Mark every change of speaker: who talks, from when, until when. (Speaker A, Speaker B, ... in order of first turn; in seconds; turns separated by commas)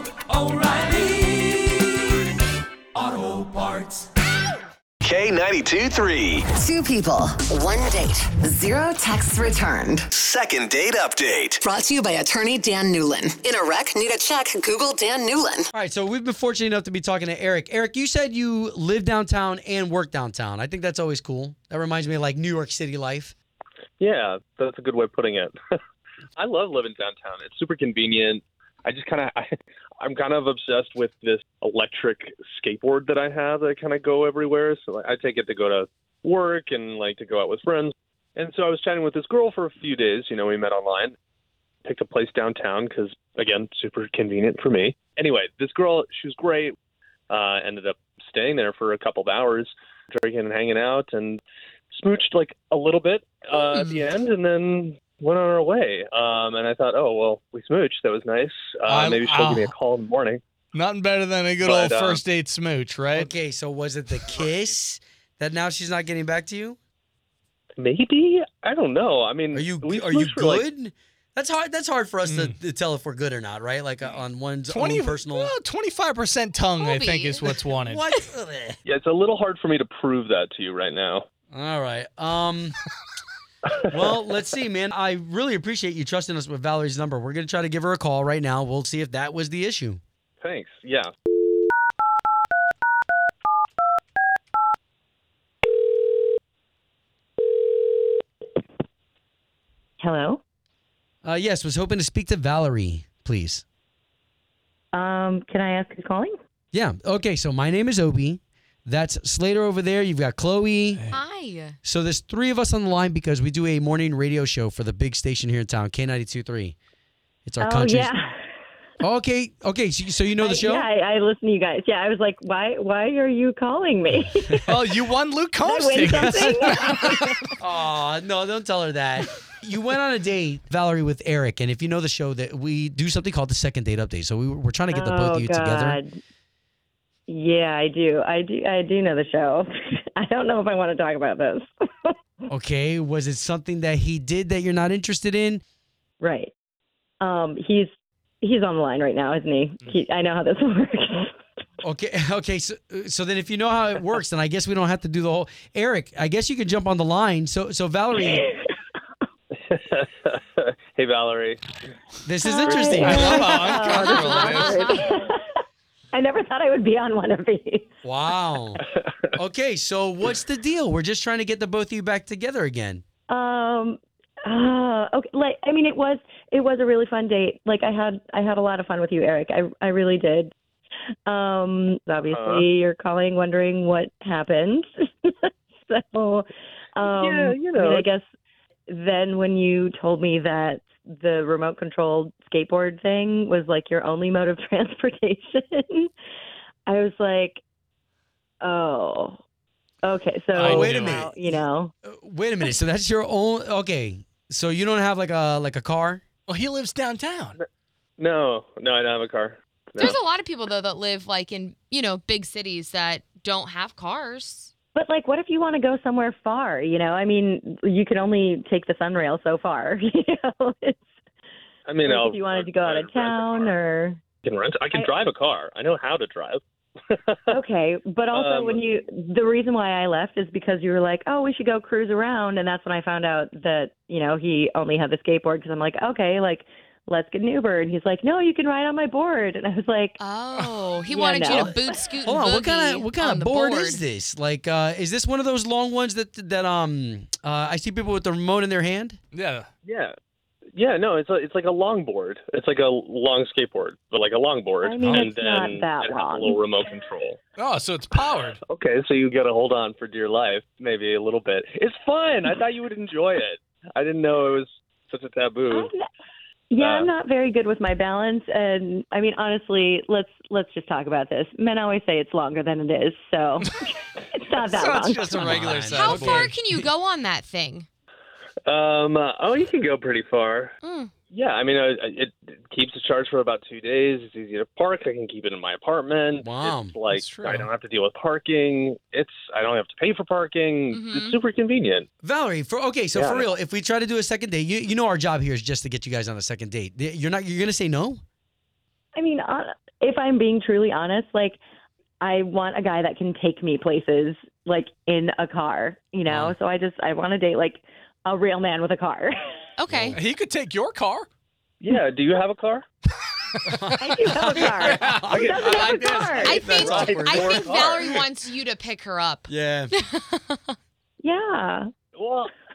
Speaker A: 0.3-1.0, Speaker A: 3.2-4.0, Speaker B: 5.0-6.5, Speaker C: 6.5-10.1, Speaker B: 10.1-11.6, Speaker C: 11.6-15.7, Speaker D: 15.7-23.3, Speaker E: 24.0-25.6, Speaker E: 26.4-41.1, Speaker E: 41.9-46.7, Speaker E: 47.3-60.4, Speaker F: 53.5-54.0, Speaker A: 58.9-59.7, Speaker A: 60.7-63.3, Speaker E: 61.6-62.2, Speaker D: 63.1-66.8, Speaker E: 67.8-70.7, Speaker D: 69.5-75.5, Speaker A: 72.3-72.6, Speaker A: 74.7-78.0, Speaker F: 76.8-77.6, Speaker D: 77.7-78.8, Speaker E: 78.9-81.3, Speaker D: 81.5-82.8, Speaker D: 83.9-90.0, Speaker E: 90.4-91.1, Speaker G: 100.0-100.4, Speaker D: 101.2-103.6, Speaker G: 104.9-106.4, Speaker D: 106.7-111.0, Speaker F: 111.1-111.8, Speaker D: 111.8-116.8, Speaker D: 117.5-118.1, Speaker G: 117.6-118.4, Speaker D: 119.0-120.9, Speaker G: 120.4-124.7, Speaker A: 124.7-127.5, Speaker G: 125.6-127.4, Speaker D: 126.2-127.0, Speaker D: 127.6-136.0, Speaker G: 134.9-136.2, Speaker G: 137.3-142.1, Speaker D: 142.5-145.6, Speaker G: 146.2-146.5, Speaker G: 147.2-147.9, Speaker G: 148.4-151.3, Speaker D: 151.8-158.5, Speaker E: 159.7-161.6, Speaker D: 162.2-164.1, Speaker G: 162.4-165.4, Speaker A: 163.0-164.9, Speaker F: 164.2-164.7, Speaker G: 166.1-167.9, Speaker D: 168.1-168.8, Speaker D: 169.3-173.0, Speaker G: 173.3-180.5, Speaker G: 181.3-188.2, Speaker E: 182.3-182.7, Speaker E: 187.0-188.1, Speaker G: 188.9-196.1, Speaker G: 196.9-197.6, Speaker G: 198.6-199.4, Speaker G: 200.0-201.9, Speaker D: 200.6-201.3, Speaker A: 200.6-201.3, Speaker D: 202.1-206.2, Speaker A: 206.5-207.6, Speaker E: 208.2-210.2, Speaker F: 210.0-214.7, Speaker G: 214.9-221.0, Speaker E: 221.9-223.7, Speaker G: 222.0-224.2, Speaker E: 224.4-227.4, Speaker G: 227.5-240.2, Speaker E: 228.3-228.8, Speaker F: 240.2-244.0, Speaker G: 241.1-241.8, Speaker D: 242.2-249.2, Speaker A: 249.3-249.7, Speaker E: 249.8-250.1, Speaker E: 250.8-257.4, Speaker G: 254.8-256.6, Speaker A: 255.0-255.3, Speaker A: 257.6-258.6, Speaker E: 258.7-265.9, Speaker G: 265.7-266.0, Speaker G: 266.7-275.6, Speaker E: 266.8-267.1, Speaker A: 274.6-276.6, Speaker D: 275.4-276.5, Speaker F: 275.9-277.9, Speaker E: 278.7-280.7, Speaker F: 280.8-281.1, Speaker E: 281.3-292.1, Speaker D: 286.4-287.0, Speaker A: 287.1-287.7, Speaker F: 290.9-291.4, Speaker D: 292.2-298.2, Speaker E: 293.1-293.5, Speaker G: 299.1-301.6, Speaker G: 302.2-309.4, Speaker D: 306.3-306.6, Speaker F: 309.8-310.2, Speaker D: 309.9-310.2, Speaker A: 310.1-311.3, Speaker E: 311.8-312.9, Speaker D: 313.6-315.6, Speaker G: 314.0-316.6, Speaker A: 314.9-316.6, Speaker E: 315.3-316.1, Speaker F: 316.4-320.6, Speaker D: 316.5-318.1, Speaker E: 316.8-318.2, Speaker D: 319.5-319.9, Speaker G: 321.2-321.9, Speaker E: 322.2-322.5